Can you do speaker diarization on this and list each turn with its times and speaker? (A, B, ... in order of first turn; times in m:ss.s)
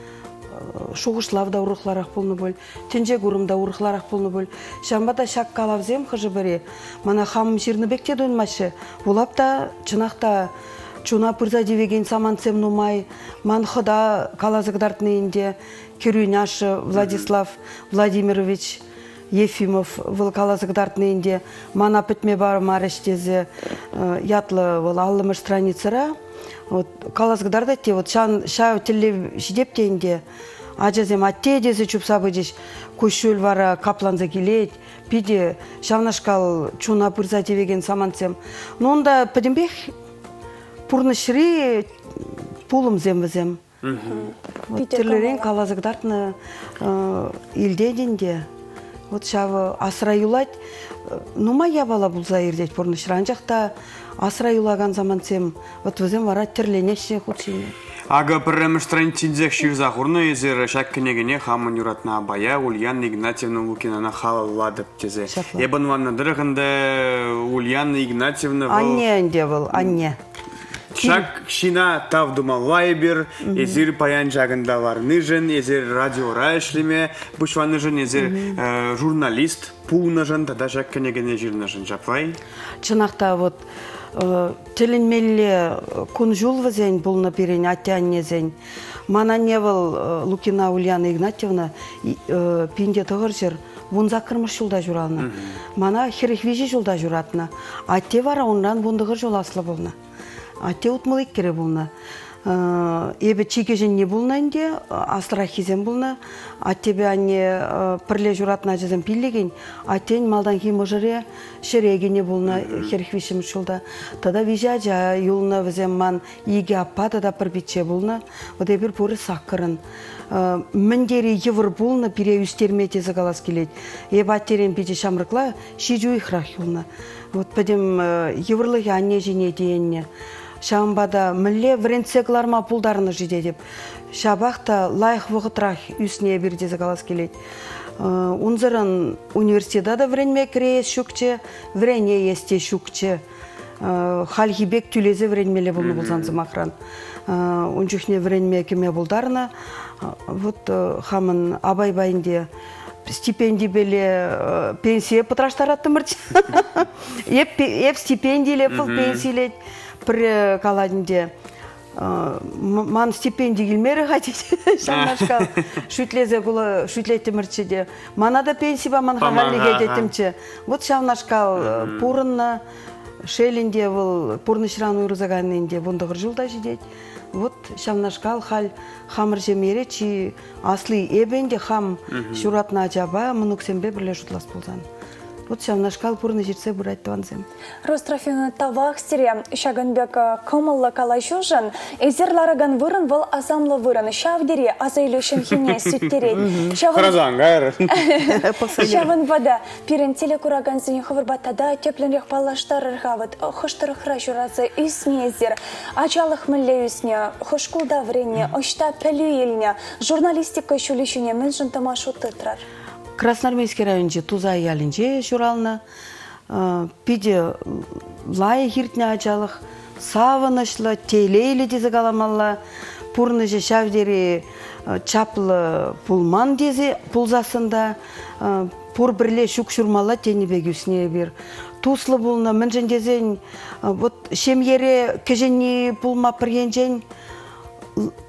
0:00.5-0:10.5 A
0:11.0-0:26.2 A
0:17.0-0:17.3 B
0:26.7-0:30.2 A
0:30.8-0:39.9 A
0:40.9-0:43.6 A
0:43.8-0:44.3 B
0:43.9-0:45.5 C
0:44.7-0:48.5 A
0:49.1-0:57.7 A
0:58.1-1:09.0 B
1:05.3-1:05.7 A
1:08.7-1:10.2 A
1:10.9-1:22.4 B
1:11.0-1:11.3 A
1:13.4-1:13.8 A
1:18.2-1:18.6 A
1:22.8-1:28.6 A
1:29.1-1:39.9 A
1:35.2-1:35.6 B
1:40.6-1:41.9 A
1:42.4-2:10.1 A
1:52.5-1:52.9 B
2:10.6-2:13.6 A
2:14.1-2:17.4 A
2:18.0-2:23.2 A
2:23.8-2:26.7 A
2:25.8-2:26.4 B
2:27.3-2:32.5 A
2:33.0-2:41.3 A
2:38.7-2:39.2 B
2:41.9-2:52.6 A
2:44.9-2:45.4 B
2:49.2-2:50.1 B
2:51.6-2:52.1 B
2:53.2-3:04.8 A
3:02.1-3:02.5 B
3:05.5-3:07.5 A
3:07.8-3:17.2 C
3:16.4-3:16.7 A
3:16.9-3:18.0 B
3:18.1-3:32.6 C
3:18.4-3:19.1 A
3:33.2-3:35.8 A
3:36.5-3:42.6 A
3:43.1-3:57.0 A